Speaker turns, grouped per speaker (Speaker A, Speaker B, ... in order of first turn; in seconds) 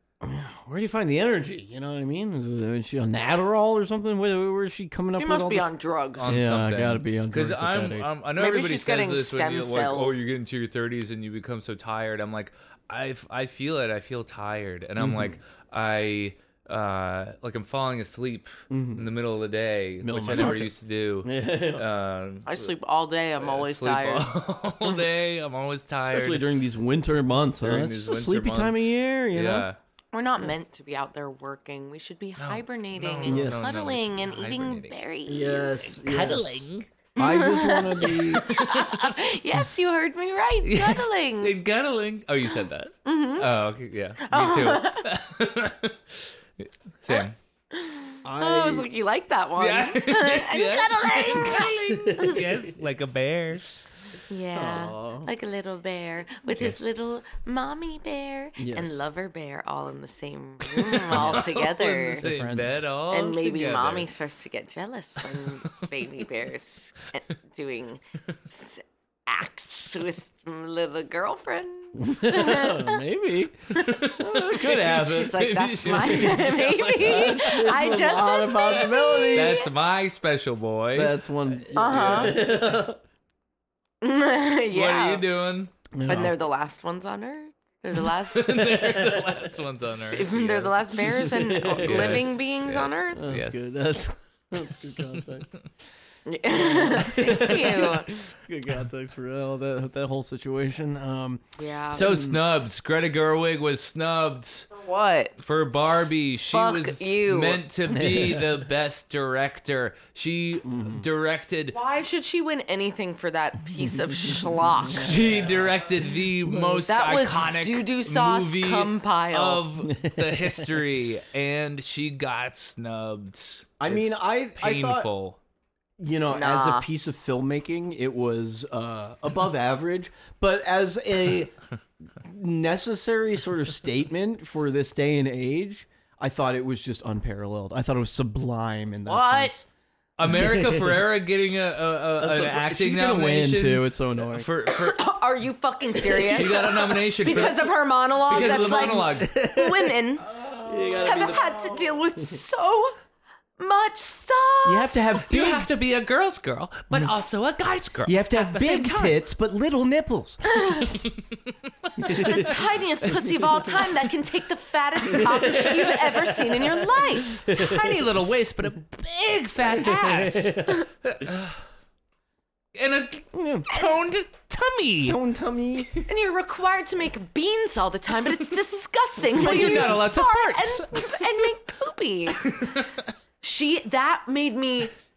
Speaker A: 0.2-5.7, 6.2-8.1, 15.0-15.3, 18.7-19.1, 20.0-21.8, 26.1-29.7, 33.2-33.9, 35.3-38.5, 48.2-48.9, 51.5-52.4, 54.5-55.3, 58.6-59.0, 61.1-61.6, 62.2-62.8, 72.0-75.4, 76.1-76.4, 77.0-79.7, 80.9-83.0, 85.9-86.4, 91.2-92.4, 93.1-95.5, 96.5-102.4, 107.9-108.6, 110.6-111.1, 113.8-115.7, 116.4-116.9, 119.8-120.8, 123.8-125.1, 126.0-131.5, 132.2-139.7, 140.2-141.0, 142.2-144.5, 146.0-146.7, 147.3-147.5, 148.3-152.4, 154.6-155.7, 158.0-160.4, 162.0-162.5, 163.2-163.9, 165.0-168.1, 169.6-170.8, 173.3-173.7, 175.1-176.1, 179.4-180.1
Speaker B: 5.2-6.3, 8.4-10.1, 22.4-24.3, 30.1-36.0, 37.2-41.5, 43.0-43.5, 44.2-45.1, 47.1-52.4, 54.3-62.2, 63.1-73.0, 74.7-79.7, 81.7-82.5, 84.0-85.2, 86.1-89.1, 90.1-93.2, 96.2-98.1, 101.6-102.0, 104.7-105.3, 106.5-107.6, 111.7-115.1, 116.9-119.6, 126.3-126.8, 139.1-139.5, 144.7-150.3, 151.0-152.9, 153.6-155.0, 160.4-161.0, 162.1-167.3, 176.1-182.7, 183.4-184.9
Speaker C: 6.2-22.7, 23.4-26.4, 27.6-29.8, 32.4-34.9, 36.0-36.9, 38.5-39.2, 40.6-46.0, 46.6-47.3, 49.6-53.6, 56.5-56.8, 60.8-64.1, 73.8-77.7, 79.3-81.2, 81.8-82.3, 84.7-85.7, 88.1-93.8, 101.9-104.7, 105.4-111.8, 115.0-125.4, 140.2-145.0, 146.3-149.3, 155.2-159.1, 167.3-171.6, 172.7-175.2, 179.3-181.2, 182.4-182.9